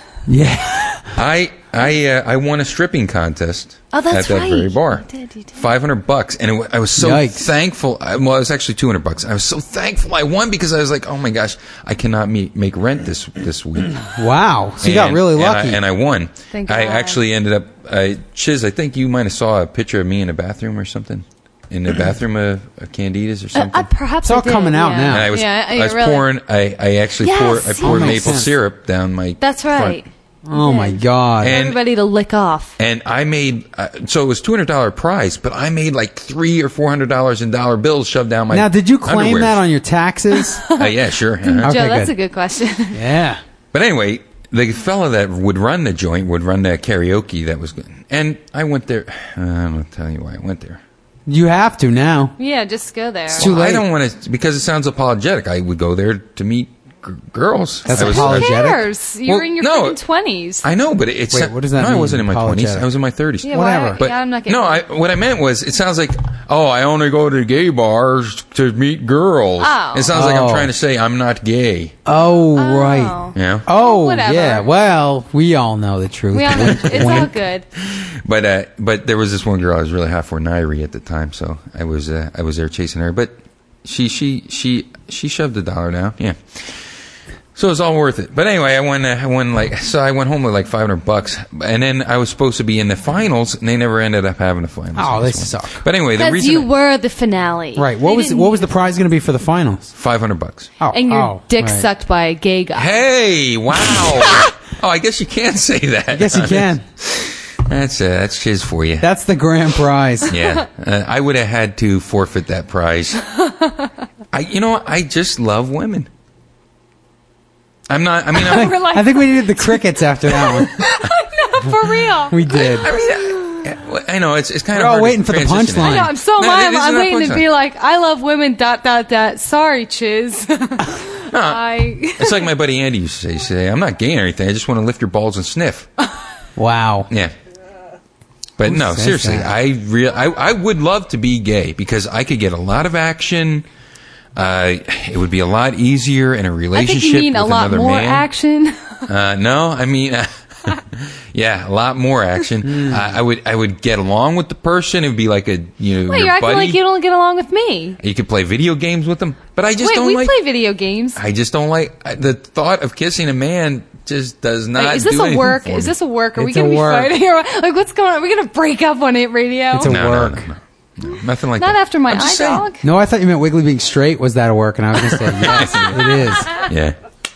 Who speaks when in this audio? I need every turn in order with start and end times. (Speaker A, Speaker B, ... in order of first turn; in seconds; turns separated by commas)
Speaker A: 0.3-1.2, Speaker B: 1.1-14.1, Speaker C: 3.9-5.6, Speaker A: 7.0-7.5, Speaker A: 14.1-15.8, Speaker B: 14.8-23.9, Speaker C: 16.5-17.2, Speaker C: 23.5-26.2, Speaker A: 24.2-25.3, Speaker B: 25.1-30.0, Speaker C: 27.2-28.4, Speaker A: 27.8-28.5, Speaker C: 29.4-32.7, Speaker A: 30.4-31.6, Speaker B: 31.4-31.8, Speaker B: 32.8-39.6, Speaker A: 38.5-40.6, Speaker C: 40.4-40.9, Speaker B: 40.7-41.7, Speaker C: 41.4-43.0, Speaker A: 41.6-42.1, Speaker A: 42.9-43.4, Speaker B: 43.7-50.8, Speaker A: 51.3-52.3, Speaker C: 52.4-53.5, Speaker B: 53.4-58.6, Speaker A: 53.4-53.8, Speaker C: 57.9-60.6, Speaker A: 57.9-58.8, Speaker B: 59.2-60.0, Speaker B: 60.6-71.9, Speaker A: 61.3-62.9, Speaker C: 63.4-64.8, Speaker A: 63.5-64.0, Speaker C: 69.6-70.1, Speaker A: 70.1-70.7, Speaker A: 72.0-77.3, Speaker C: 72.5-74.7, Speaker B: 73.3-73.7, Speaker C: 76.3-77.6, Speaker B: 76.6-86.9, Speaker B: 87.5-96.7, Speaker A: 95.0-95.8, Speaker C: 96.2-98.7, Speaker A: 97.8-99.9, Speaker B: 99.9-100.7, Speaker A: 100.8-101.9, Speaker C: 100.9-103.0, Speaker B: 102.8-109.1, Speaker A: 106.1-106.8, Speaker A: 109.0-110.3, Speaker B: 110.3-113.2, Speaker B: 114.3-116.1, Speaker B: 117.9-118.8, Speaker C: 118.3-123.6, Speaker A: 118.5-120.7, Speaker B: 120.5-120.8, Speaker A: 122.3-122.9, Speaker B: 122.5-127.5, Speaker A: 124.7-126.1, Speaker C: 125.8-132.5, Speaker B: 131.3-135.9, Speaker A: 136.6-137.1, Speaker B: 138.6-143.6, Speaker A: 138.6-139.5, Speaker B: 144.3-148.3, Speaker C: 146.7-149.0, Speaker B: 149.1-156.8, Speaker A: 152.6-153.1, Speaker C: 156.1-158.0, Speaker B: 158.0-160.4, Speaker C: 159.8-161.2, Speaker B: 161.2-165.9, Speaker C: 164.8-170.0, Speaker A: 166.4-167.1, Speaker A: 169.7-170.5, Speaker B: 169.8-172.7, Speaker C: 171.6-172.8, Speaker A: 172.8-176.5, Speaker B: 175.1-176.9, Speaker C: 175.7-176.7